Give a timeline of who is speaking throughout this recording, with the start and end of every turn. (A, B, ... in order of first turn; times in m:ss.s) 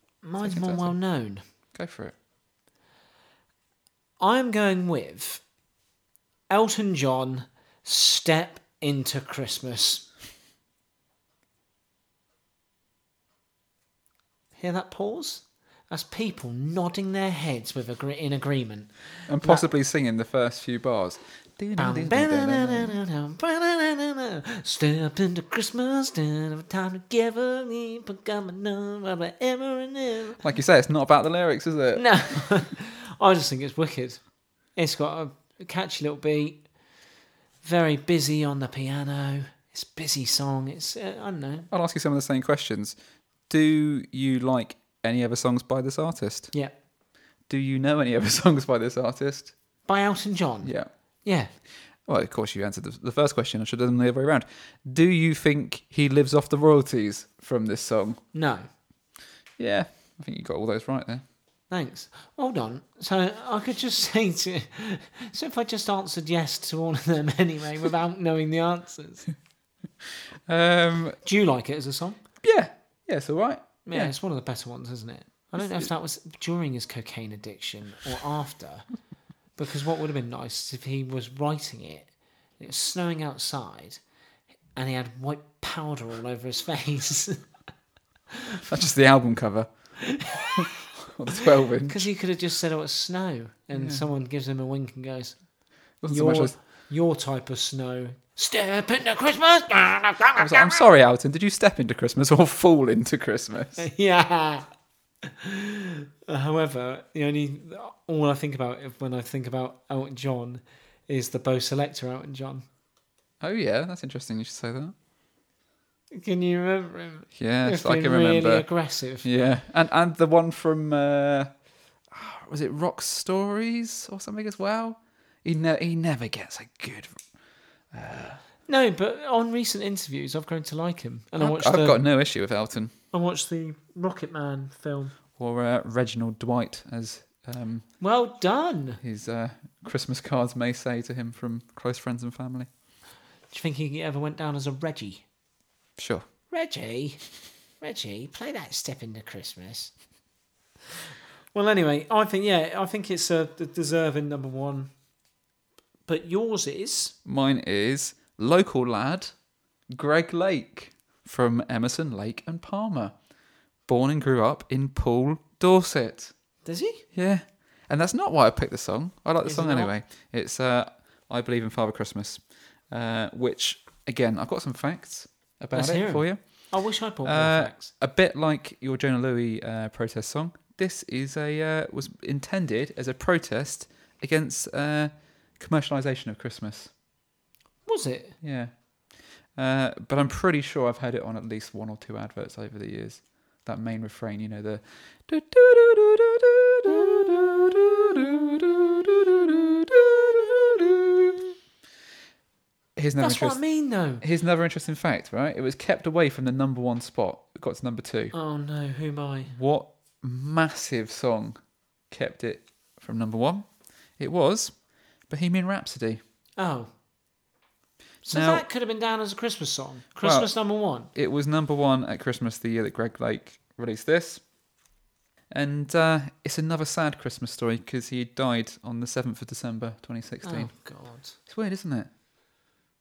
0:00.2-0:01.4 A
0:00.4-0:01.0 B
0:01.7-0:02.1 B
0:04.2-0:05.4 A
0:06.5-0:10.1 A
0:14.6-0:19.6 A
0:19.3-0:22.9 B
0:21.8-0:30.4 A
0:30.4-0:32.6 B
0:31.9-0:34.2 A
0:34.8-0:36.6 A
0:37.6-0:41.7 A
0:41.7-0:43.0 B
0:43.5-0:46.5 B
0:47.5-0:49.5 B
0:49.9-0:50.7 A
0:50.6-0:50.9 B
0:51.2-0:51.5 A
0:52.0-0:58.2 B
0:58.3-0:58.6 A
0:59.6-1:01.2 B
1:01.7-1:09.2 A
1:10.5-1:11.2 B
1:11.2-1:12.2 A
1:12.4-1:14.1 B
1:13.9-1:18.9 A
1:15.6-1:15.9 B
1:19.6-1:24.0 A
1:24.8-1:27.4 A
1:28.6-1:29.7 B
1:30.0-1:30.7 A
1:30.4-1:32.1 B
1:31.8-1:35.4 A
1:33.7-1:34.0 B
1:36.0-1:36.5 B
1:36.1-1:40.8 A
1:40.4-1:43.9 B
1:43.8-1:44.6 A
1:45.2-1:52.6 A
1:53.4-1:54.9 B
1:56.1-1:59.2 A
1:57.4-1:58.7 B
1:59.2-2:01.5 B
2:02.1-2:07.2 B
2:07.9-2:08.4 B
2:08.7-2:12.0 A
2:11.4-2:12.9 B
2:13.1-2:15.1 A
2:15.4-2:17.9 B
2:18.0-2:19.0 A
2:19.0-2:22.7 B
2:23.5-2:25.2 A
2:26.0-2:26.3 B
2:26.5-2:27.2 A
2:27.8-2:29.9 A
2:31.5-2:34.9 A
2:36.1-2:37.1 A
2:37.2-2:39.3 B
2:39.9-2:43.1 B
2:43.9-2:46.3 B
2:46.6-2:47.0 A
2:47.1-2:56.7 B
2:49.4-2:49.9 A
2:55.7-2:57.9 A
2:57.2-3:06.9 B
3:07.9-3:08.4 A
3:08.4-3:08.7 B
3:09.6-3:21.5 B
3:23.0-3:23.6 B
3:23.2-3:24.2 A
3:24.2-3:28.4 B
3:28.3-3:29.5 A
3:29.5-3:31.6 B
3:32.1-3:34.7 B
3:35.3-3:36.2 B
3:36.6-3:36.9 A
3:38.2-3:41.1 A
3:38.3-3:38.6 B
3:40.2-3:40.5 B
3:41.1-3:44.4 B
3:45.5-3:50.7 B
3:50.4-3:51.4 A
3:51.5-3:52.1 B